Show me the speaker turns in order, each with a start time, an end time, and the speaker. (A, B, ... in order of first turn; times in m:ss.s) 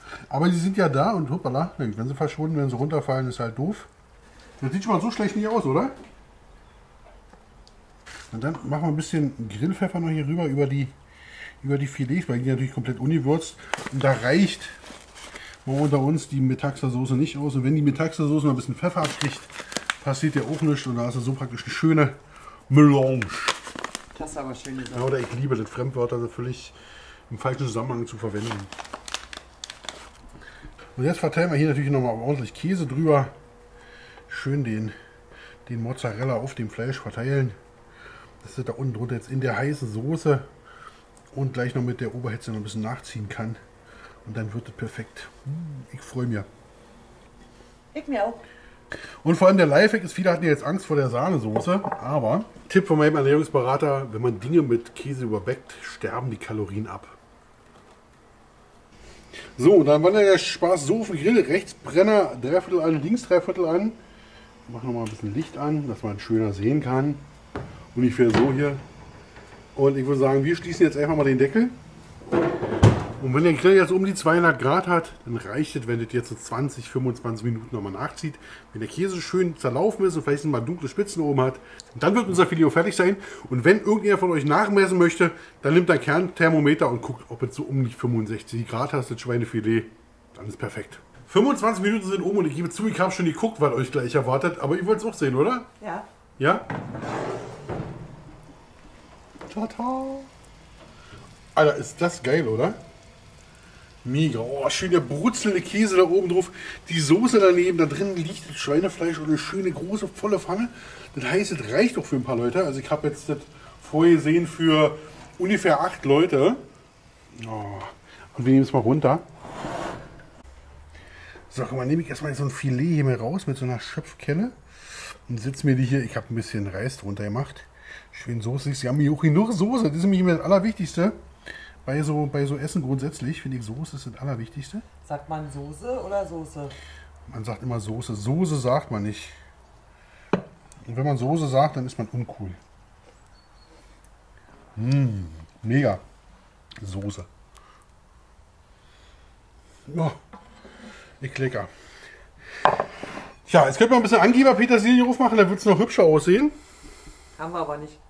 0:00.3-0:03.9 A
0:04.6-0:05.9 A
0:08.3-0:10.9 A
0:11.6-0:14.8 A
0:15.6-0:22.2 A
0:22.7-0:23.6 A
0:24.1-0:25.1 B
0:24.9-0:26.8 A
0:27.3-0:28.7 A
0:31.0-0:33.3 A
0:34.3-0:34.9 A
0:35.6-0:37.6 A
0:38.4-0:40.5 A
0:41.3-0:43.6 A
0:44.2-0:46.5 A
0:47.9-0:48.4 B
0:49.2-0:57.2 A
0:59.6-1:04.0 A
1:04.7-1:07.2 A
1:07.9-1:08.8 A
1:09.7-1:11.8 A
1:13.2-1:35.7 A
1:35.8-1:36.0 B
1:36.4-1:36.6 A
1:39.5-1:40.3 A
1:41.5-1:42.8 A
1:44.0-1:56.6 A
1:57.4-1:59.2 A
2:01.5-2:04.6 A
2:05.1-2:11.2 A
2:11.8-2:14.8 A
2:15.0-2:16.8 B
2:17.3-2:19.4 A
2:20.8-2:22.6 A
2:24.8-2:26.0 A
2:26.8-2:27.3 A
2:29.9-2:30.2 A
2:31.2-2:31.7 A
2:33.5-2:36.6 A
2:37.4-2:38.0 B